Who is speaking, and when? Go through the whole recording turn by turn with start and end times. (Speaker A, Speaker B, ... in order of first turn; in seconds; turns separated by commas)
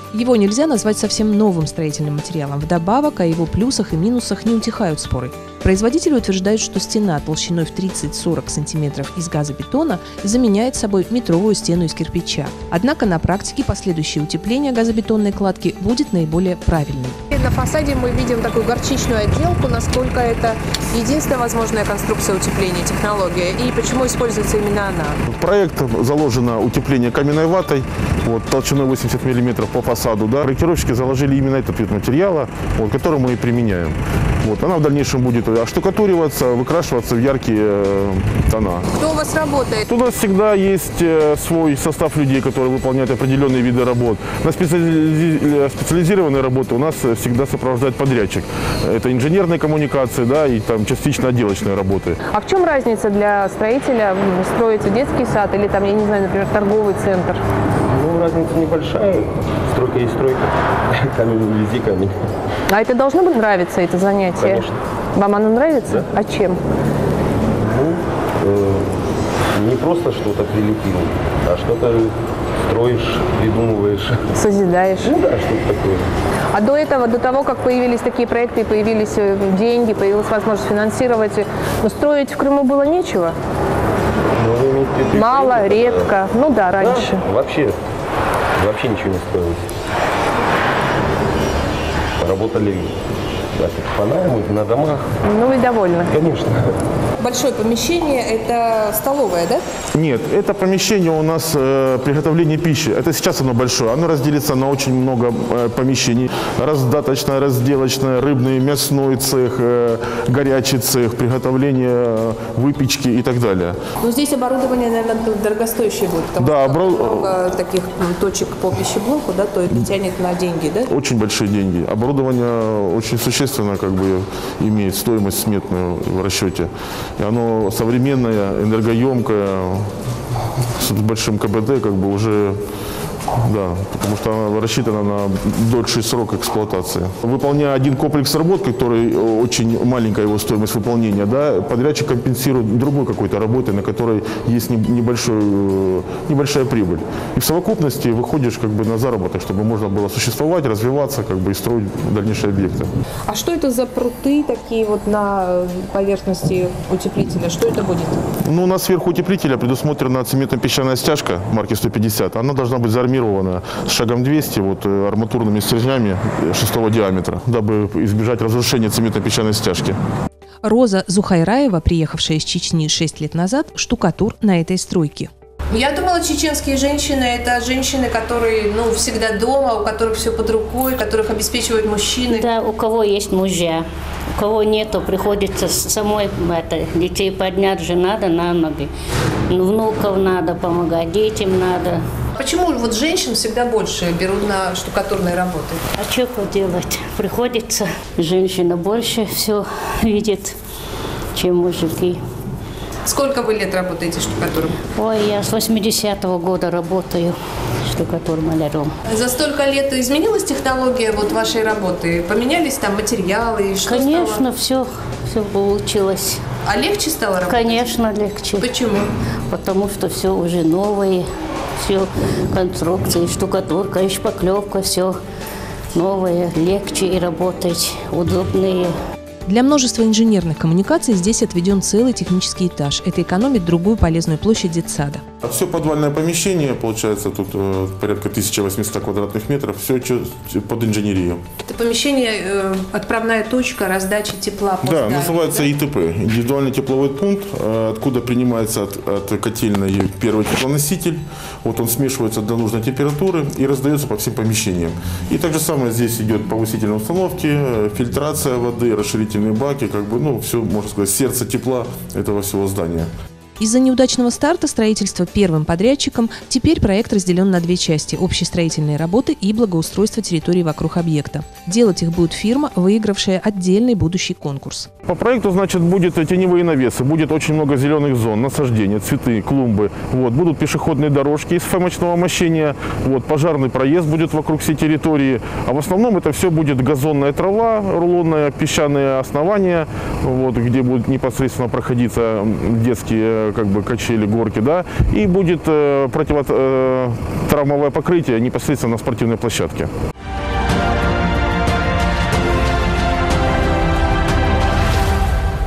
Speaker A: 0.1-17.2, Speaker B: 17.3-25.2, Speaker C: 25.3-38.9, Speaker B: 39.0-39.8, Speaker C: 39.9-52.2, Speaker B: 52.3-57.4, Speaker D: 57.9-62.1, Speaker B: 62.7-66.6, Speaker D: 64.3-64.7, Speaker D: 65.8-66.1, Speaker D: 67.6-68.9, Speaker D: 69.5-74.3, Speaker B: 74.3-75.1, Speaker D: 75.0-76.1, Speaker B: 76.5-83.3, Speaker D: 84.3-86.2, Speaker B: 85.1-87.2, Speaker D: 86.8-87.8, Speaker D: 88.6-89.7, Speaker D: 92.2-92.9, Speaker D: 93.5-95.1, Speaker B: 95.2-96.1, Speaker D: 96.1-96.7, Speaker B: 97.2-99.6, Speaker C: 99.9-113.8, Speaker B: 114.0-120.9, Speaker C: 116.4-117.3, Speaker C: 120.9-129.9, Speaker C: 130.8-132.6, Speaker C: 133.3-152.9, Speaker B: 153.3-158.2, Speaker C: 158.4-170.0, Speaker A: 170.6-175.3, Speaker B: 175.7-182.5, Speaker E: 182.3-183.8, Speaker E: 184.4-188.9, Speaker E: 189.5-192.0, Speaker B: 192.3-195.8, Speaker E: 195.9-200.6, Speaker E: 201.3-202.2, Speaker B: 203.1-204.8, Speaker E: 204.9-208.9, Speaker B: 209.1-214.4, Speaker E: 213.8-216.4, Speaker B: 216.6-217.9, Speaker E: 217.5-218.7, Speaker B: 218.6-219.1, Speaker E: 219.5-221.3, Speaker E: 221.8-225.2, Speaker E: 225.9-228.9, Speaker A: 229.4-235.2, Speaker C: 235.4-241.4, Speaker B: 241.6-245.7, Speaker C: 244.8-263.1, Speaker A: 263.6-274.9, Speaker C: 275.1-299.9